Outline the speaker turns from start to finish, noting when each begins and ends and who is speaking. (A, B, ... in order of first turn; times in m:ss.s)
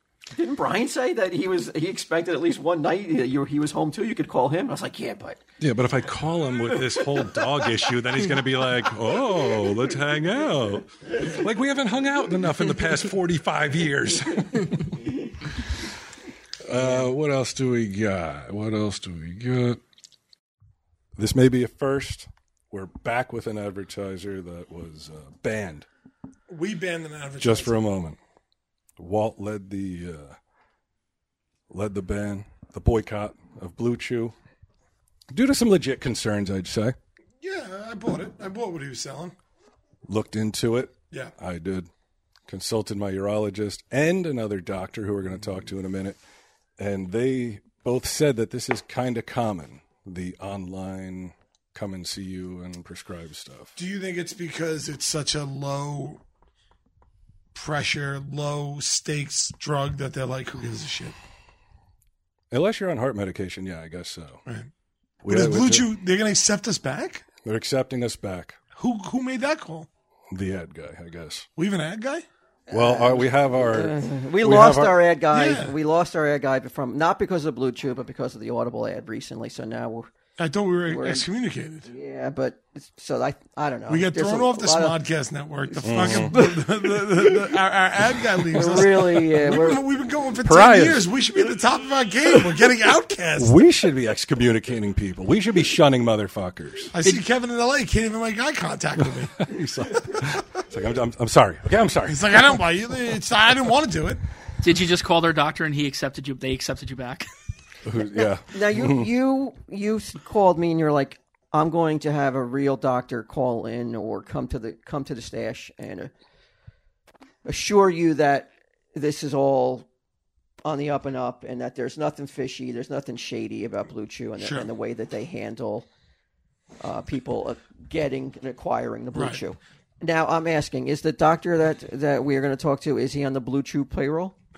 0:00.3-0:05.4 A
0:05.6-0:15.0 B
0:16.6-0:19.8 B
0:16.8-0:17.0 A
0:21.2-0:25.9 B
0:26.5-0:27.8 C
0:27.4-0:28.2 B
0:29.0-0:30.4 B
0:31.7-0:34.3 B
0:35.3-0:36.9 B
0:37.4-0:39.3 C
0:40.1-0:41.9 B
0:42.5-0:46.2 B
0:46.8-0:53.8 B
0:53.8-0:56.2 C
0:57.5-1:01.1 C
1:02.5-1:04.4 B
1:05.2-1:05.9 B
1:05.2-1:07.3 C
1:07.4-1:08.6 B
1:08.7-1:09.9 C
1:10.3-1:11.5 B
1:11.6-1:12.2 C
1:12.7-1:20.1 A
1:12.7-1:15.0 B
1:15.3-1:15.8 C
1:20.4-1:21.9 C
1:20.9-1:21.2 A
1:21.8-1:25.0 A
1:23.9-1:33.5 C
1:25.7-1:27.5 A
1:25.8-1:26.4 B
1:28.4-1:29.8 A
1:30.4-1:31.1 B
1:33.4-1:36.9 B
1:36.9-1:39.4 C
1:39.4-1:42.6 B
1:42.1-1:44.2 C
1:44.6-1:47.2 D
1:47.8-1:49.0 B
1:48.0-1:56.1 A
1:57.4-1:59.9 A
2:00.6-2:05.9 A
2:04.4-2:04.7 C
2:06.8-2:14.4 A
2:09.1-2:09.4 C